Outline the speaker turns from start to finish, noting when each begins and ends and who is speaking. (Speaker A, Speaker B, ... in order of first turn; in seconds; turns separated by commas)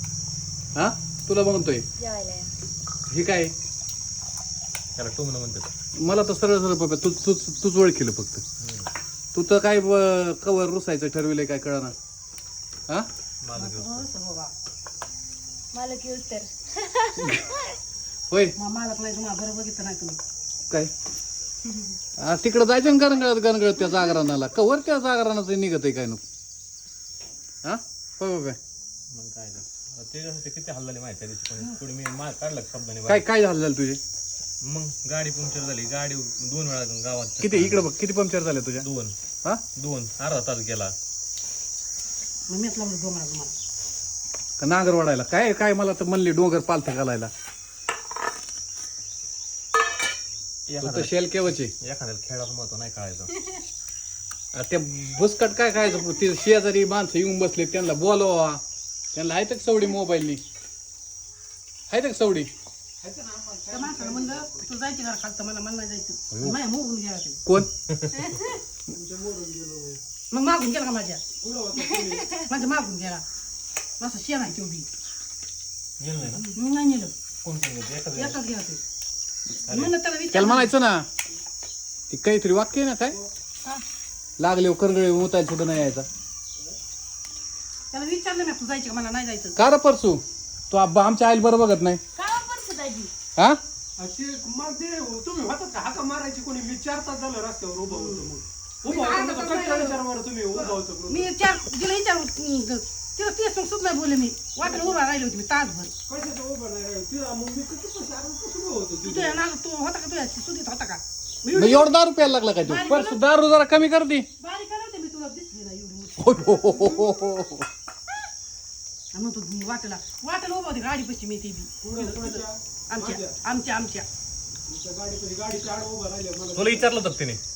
Speaker A: 0.8-1.8, Speaker B: 2.0-2.5, Speaker A: 3.1-3.5, Speaker C: 5.0-5.7, Speaker A: 6.0-8.4, Speaker C: 8.6-8.9, Speaker A: 9.3-11.9, Speaker C: 13.4-14.1, Speaker D: 13.5-14.5, Speaker B: 15.7-17.5, Speaker A: 17.2-17.4, Speaker D: 18.6-20.2, Speaker A: 22.2-26.2, Speaker A: 27.6-28.6, Speaker C: 29.1-33.2, Speaker A: 33.0-34.0, Speaker C: 34.6-37.9, Speaker A: 37.4-38.9, Speaker C: 38.8-39.1, Speaker C: 39.8-40.9, Speaker D: 42.5-43.5, Speaker A: 44.6-47.3, Speaker C: 50.7-53.4, Speaker A: 50.8-51.7, Speaker A: 54.5-58.6, Speaker A: 59.1-60.4, Speaker A: 61.9-62.5, Speaker E: 63.0-64.7, Speaker D: 63.7-67.4, Speaker E: 68.9-70.0, Speaker D: 70.3-71.2, Speaker E: 71.4-72.3, Speaker D: 72.3-73.2, Speaker D: 74.0-74.9, Speaker C: 76.0-76.5, Speaker D: 76.3-77.1, Speaker C: 77.4-78.4, Speaker D: 78.1-78.8, Speaker C: 79.6-79.9, Speaker D: 79.6-80.7, Speaker A: 80.3-81.1, Speaker A: 82.1-83.2, Speaker A: 84.4-86.1, Speaker D: 87.9-89.6, Speaker A: 89.6-92.0, Speaker B: 92.2-93.1, Speaker E: 94.0-101.3, Speaker D: 97.9-98.3, Speaker D: 98.8-100.0, Speaker D: 100.6-105.9, Speaker E: 104.6-105.0, Speaker E: 106.1-109.4, Speaker D: 109.0-112.0, Speaker A: 111.5-114.3, Speaker D: 112.6-113.2, Speaker D: 114.4-117.0, Speaker A: 116.2-117.7, Speaker D: 119.1-124.0, Speaker E: 121.8-123.3, Speaker E: 124.7-127.0, Speaker C: 126.5-127.4